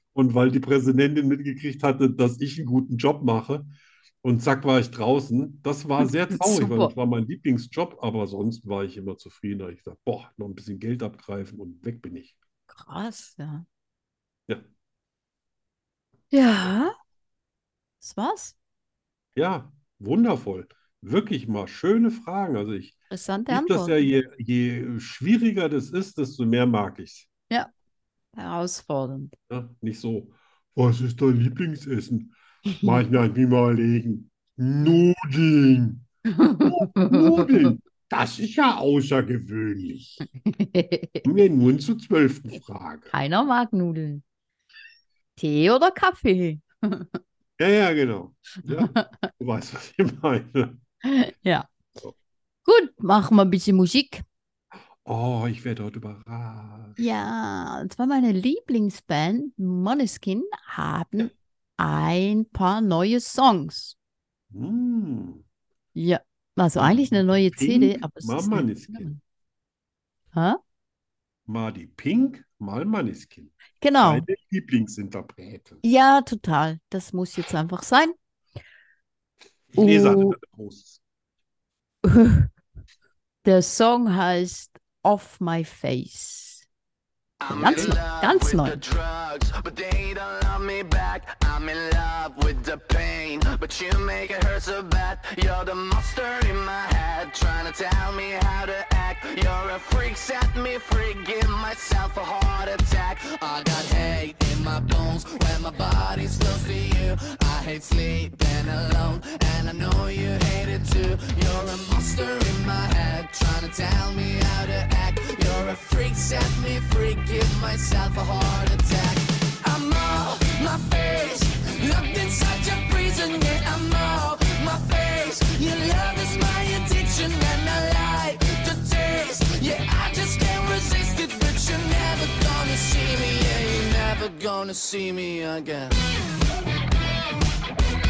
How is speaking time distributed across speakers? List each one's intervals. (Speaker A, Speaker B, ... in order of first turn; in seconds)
Speaker A: 0.1-3.7, 4.2-12.3, 19.4-23.0, 23.5-27.3, 29.5-36.0, 36.6-40.2, 41.2-43.1, 47.6-50.8, 55.0-57.0, 64.5-65.4, 66.8-69.1, 71.5-75.8, 79.7-81.0, 87.6-87.9
Speaker B: 6.3-6.9, 12.7-13.7, 16.3-16.9, 18.0-18.6, 23.1-24.0, 28.3-29.3, 32.7-33.0, 36.3-37.7, 40.4-41.3, 43.1-44.2, 45.4-47.2, 48.7-49.0, 51.0-51.7, 52.6-54.2, 57.0-64.0, 66.0-69.2, 70.3-70.6, 73.8-74.3, 75.8-78.1, 79.8-80.4, 82.0-82.5, 83.4-86.7, 87.5-88.8
Speaker C: 87.4-136.0